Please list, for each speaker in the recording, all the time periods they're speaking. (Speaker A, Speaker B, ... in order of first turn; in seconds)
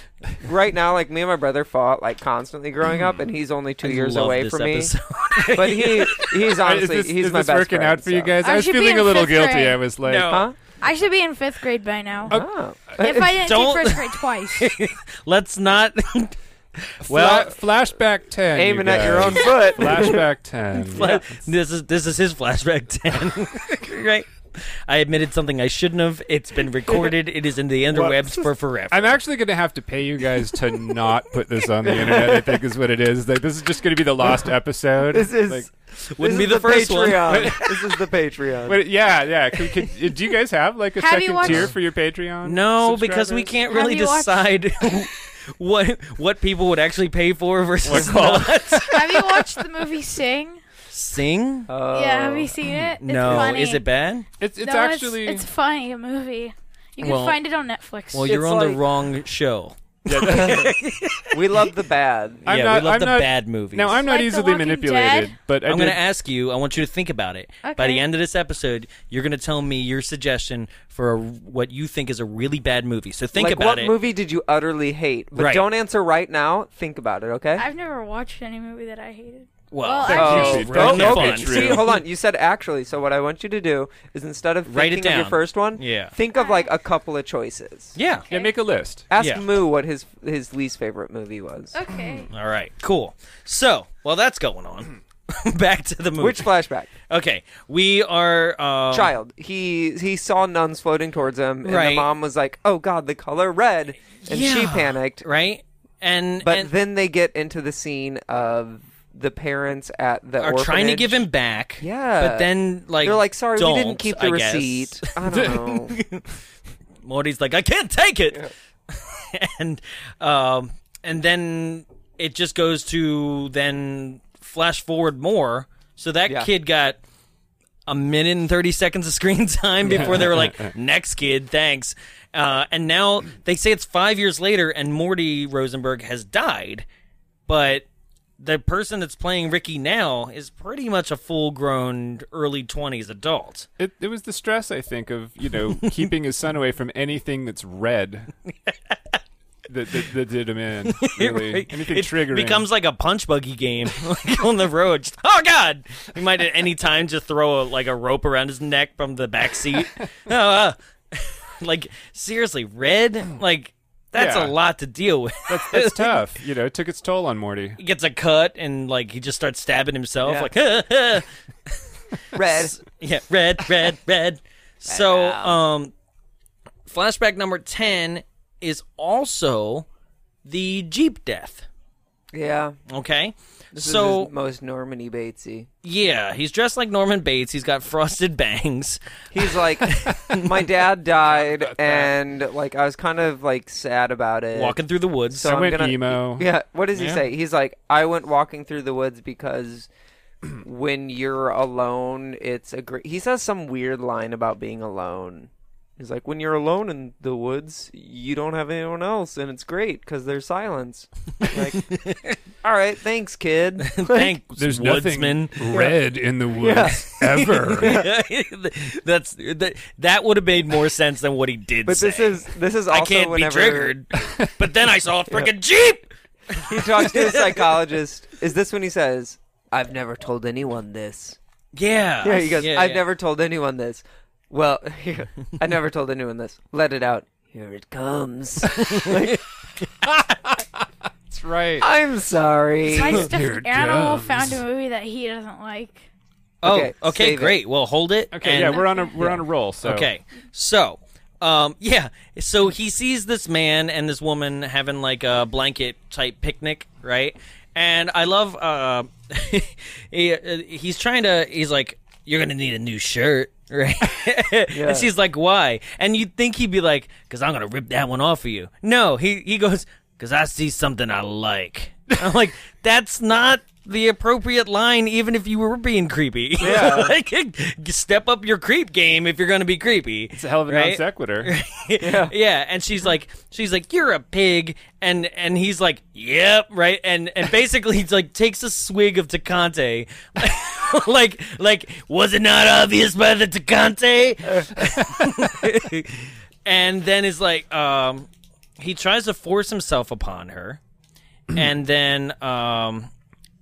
Speaker A: 0.3-4.9, 5.5-8.4, 10.2-10.6, 12.3-13.3, 18.5-20.2, 20.9-21.2, 27.9-28.5, 31.8-32.6, 35.0-38.8, 51.7-52.5, 58.2-58.8, 60.3-60.7, 61.3-62.5, 73.3-77.7, 80.1-88.0, 89.1-91.8, 96.2-96.9, 98.9-105.2, 106.4-111.3, 111.8-116.0, 170.2-170.5, 172.3-172.8, 174.9-175.6, 182.3-182.8, 183.7-185.7, 189.3-194.8, 195.3-199.9, 200.6-211.9, 212.6-214.3, 215.7-216.0, 216.6-218.1, 221.8-224.0, 226.6-231.4, 232.2-239.4, 241.8-243.2, 246.6-247.6, 264.7-265.1, 276.6-277.1, 282.0-282.3
Speaker B: 3.8-6.4, 10.0-10.5, 13.3-17.6, 20.9-29.2, 35.9-37.6, 42.4-49.0, 50.9-51.7, 53.0-54.3, 57.0-57.4, 58.1-61.6, 62.4-64.0, 65.7-74.0, 75.3-75.7, 79.7-82.0, 84.7-86.1, 88.0-88.3, 89.2-89.5, 92.3-99.1, 101.6-102.1, 104.2-106.7, 110.4-116.3, 117.0-127.0, 127.9-136.9, 137.5-137.9, 138.4-143.7, 145.8-146.1, 148.5-149.2, 150.9-166.2, 167.8-171.8, 172.4-175.9, 176.9-179.9, 180.4-181.7, 182.9-184.3, 185.8-190.7, 194.5-195.7, 196.9-197.2, 211.5-212.4, 213.8-215.9, 217.3-227.8, 231.8-233.0, 238.7-239.3, 246.6-300.8, 301.5-303.1
Speaker C: 6.6-10.5, 17.0-21.1, 28.9-35.7, 37.3-37.6, 38.6-43.5, 47.8-49.5, 54.4-55.5, 60.1-60.7, 62.5-66.0, 80.0-82.0, 88.3-89.1, 129.8-130.7, 143.8-148.3, 149.7-152.7, 164.1-164.6, 165.5-167.8, 191.2-192.2, 195.4-196.5, 214.6-218.0, 224.2-224.5, 240.1-241.9, 243.0-244.6, 248.3-250.1, 280.3-281.5
Speaker D: 8.4-9.8, 10.8-12.4, 13.0-14.7, 41.0-41.7, 43.7-44.5, 48.9-50.6, 51.9-53.8, 54.6-58.3, 64.0-65.3, 67.6-68.0, 77.6-80.9, 86.3-86.7, 91.7-92.3, 242.9-246.1, 248.7-249.1